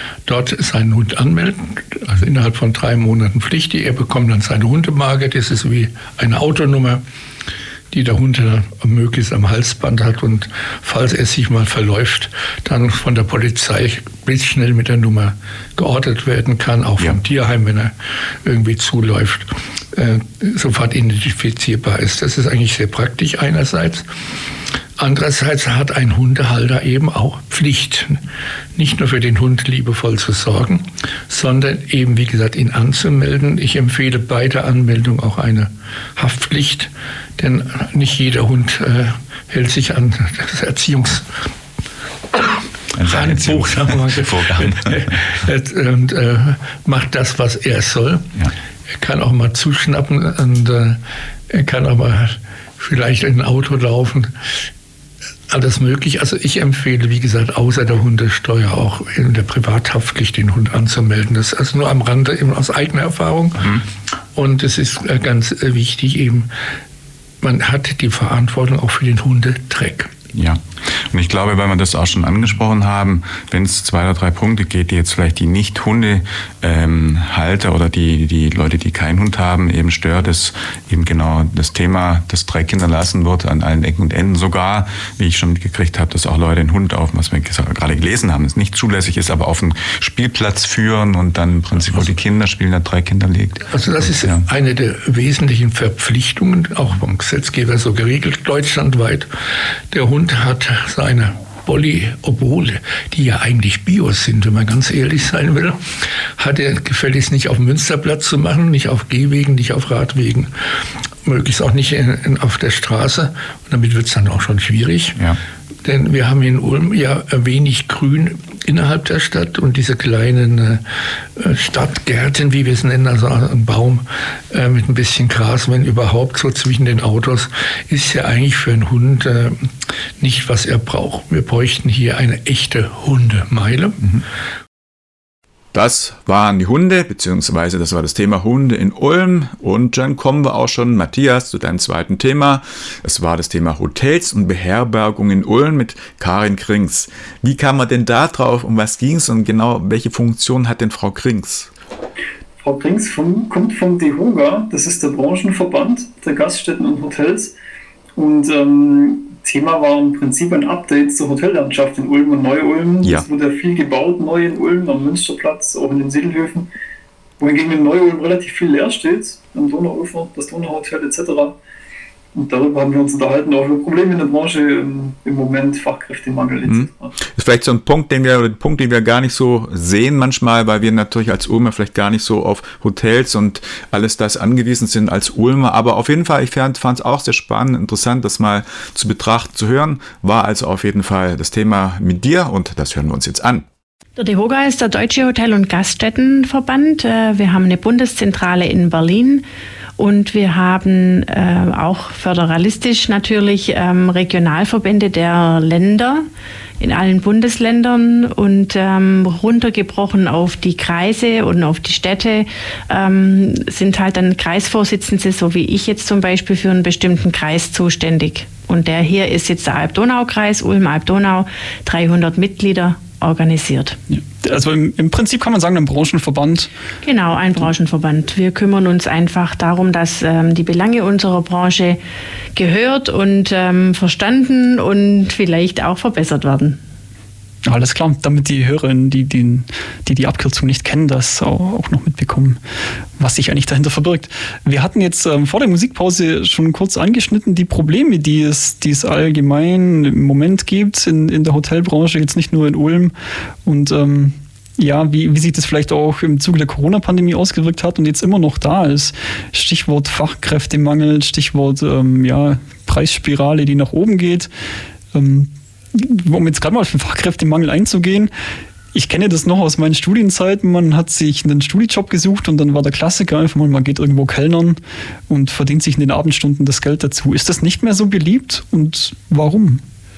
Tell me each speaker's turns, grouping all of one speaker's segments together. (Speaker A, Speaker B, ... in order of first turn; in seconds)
Speaker A: 0.2-7.0, 7.9-17.9, 18.4-24.1, 25.0-28.2, 28.8-41.2, 43.0-48.3, 49.0-51.0, 51.5-54.3, 55.5-63.7, 64.3-66.5, 67.4-70.1, 93.7-99.3, 99.9-105.8, 106.4-110.5, 111.2-115.2, 115.8-120.8, 121.4-134.0
Speaker B: 42.9-45.2, 63.6-63.8, 70.3-94.4, 135.7-151.7, 176.6-193.7
Speaker C: 152.6-157.5, 158.1-166.7, 167.4-171.6, 172.3-177.1
Speaker D: 194.2-199.4, 200.0-206.2, 206.8-224.0, 227.0-232.0, 232.6-236.8
Speaker E: 224.1-226.7, 237.7-242.6, 243.2-253.1, 253.6-264.5, 265.1-268.3, 268.9-279.8